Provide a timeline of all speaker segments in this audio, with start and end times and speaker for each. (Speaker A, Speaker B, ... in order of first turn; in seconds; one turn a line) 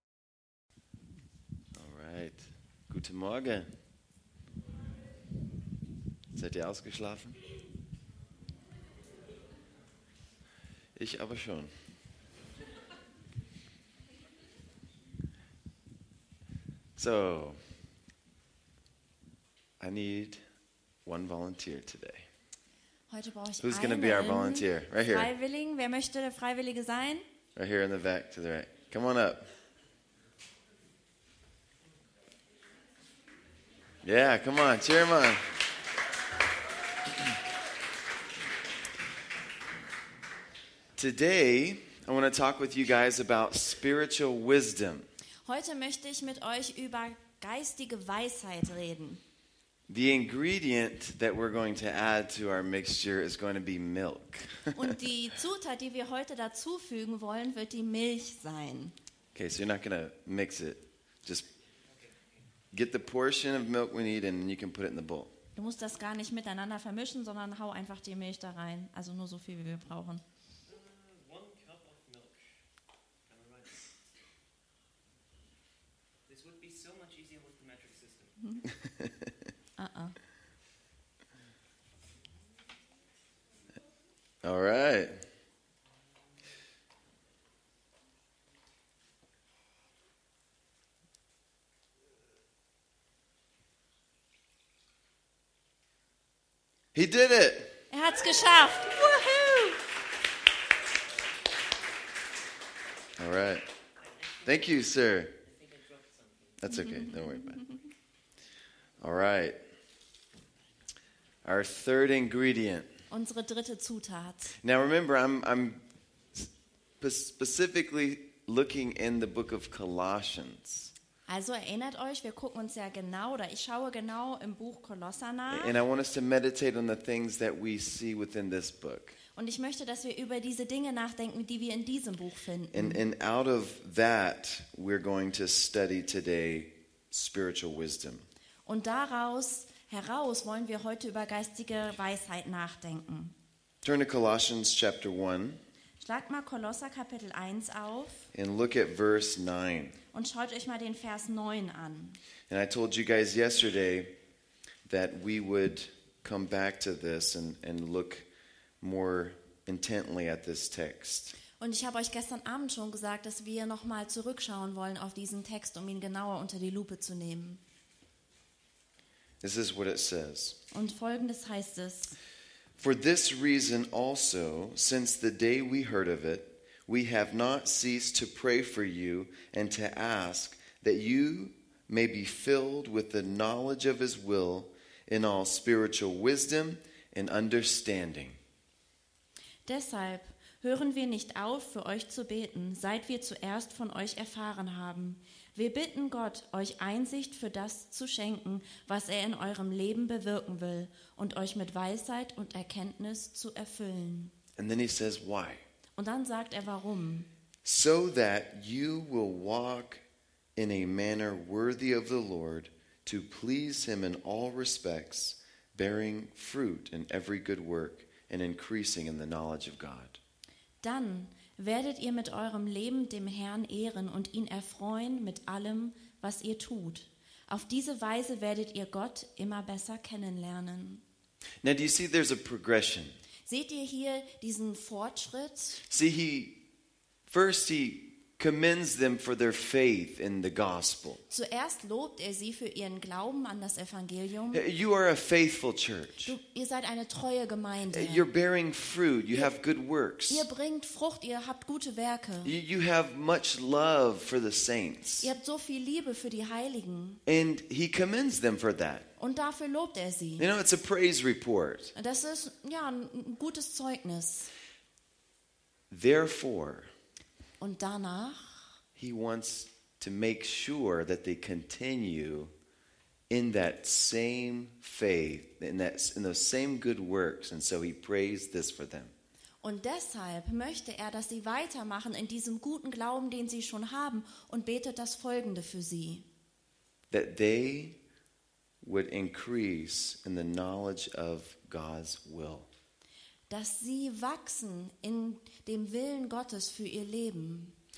Speaker A: 1.7-3.7
Speaker A: 6.3-7.4
Speaker A: 10.9-11.7
Speaker A: 16.9-17.6
Speaker A: 19.8-20.4
Speaker A: 21.1-22.3
Speaker B: 23.1-27.2
Speaker A: 23.6-25.3
Speaker A: 27.6-29.5
Speaker A: 34.0-35.5
Speaker A: 41.0-45.0
Speaker B: 45.4-49.2
Speaker A: 49.9-55.0
Speaker B: 54.7-58.9
Speaker A: 59.3-61.4
Speaker C: 61.9-62.4
Speaker A: 62.7-65.3
Speaker B: 65.5-70.2
Speaker C: 70.7-72.4
Speaker C: 73.3-73.9
Speaker C: 76.3-78.4
Speaker B: 78.4-78.7
Speaker A: 79.0-79.3
Speaker B: 79.8-80.2
Speaker A: 84.4-85.2
Speaker A: 96.9-97.8
Speaker B: 97.9-99.8
Speaker A: 103.2-103.7
Speaker C: 104.2-104.7
Speaker A: 104.4-105.4
Speaker C: 105.4-106.6
Speaker A: 106.6-107.7
Speaker B: 106.7-107.2
Speaker A: 109.0-109.6
Speaker A: 111.4-112.9
Speaker B: 113.1-114.5
Speaker A: 114.6-120.9
Speaker B: 121.3-125.8
Speaker A: 125.5-129.2
Speaker B: 129.3-133.0
Speaker A: 132.7-138.2
Speaker B: 138.7-143.3
Speaker A: 143.8-145.6
Speaker B: 146.0-148.3
Speaker A: 148.3-150.0
Speaker B: 150.1-152.2
Speaker A: 152.5-154.1
Speaker A: 154.8-158.3
Speaker A: 158.8-161.4
Speaker B: 161.6-167.6
Speaker A: 169.4-170.6
Speaker B: 170.7-172.2
Speaker A: 172.8-188.4
Speaker B: 189.7-204.3
Speaker A: 204.6-205.6
Speaker B: 206.0-207.3
Speaker A: 207.6-210.0
Speaker A: 210.6-220.2
Speaker B: 220.8-231.0
Speaker A: 231.6-233.2
Speaker B: 233.5-235.8
Speaker A: 235.9-236.6
Speaker A: 237.3-241.2
Speaker B: 241.3-244.6
Speaker A: 244.5-246.3
Speaker B: 246.2-248.3
Speaker A: 247.9-250.5
Speaker B: 250.3-252.5
Speaker A: 252.4-255.3
Speaker B: 255.2-257.2
Speaker A: 257.2-259.1
Speaker B: 259.2-260.5
Speaker A: 260.4-261.9
Speaker B: 261.9-264.5
Speaker A: 265.9-266.9
Speaker B: 267.6-268.7
Speaker A: 268.9-272.5
Speaker A: 273.3-279.1
Speaker B: 279.6-286.2
Speaker A: 287.1-288.0
Speaker A: 288.8-292.7
Speaker B: 293.5-297.8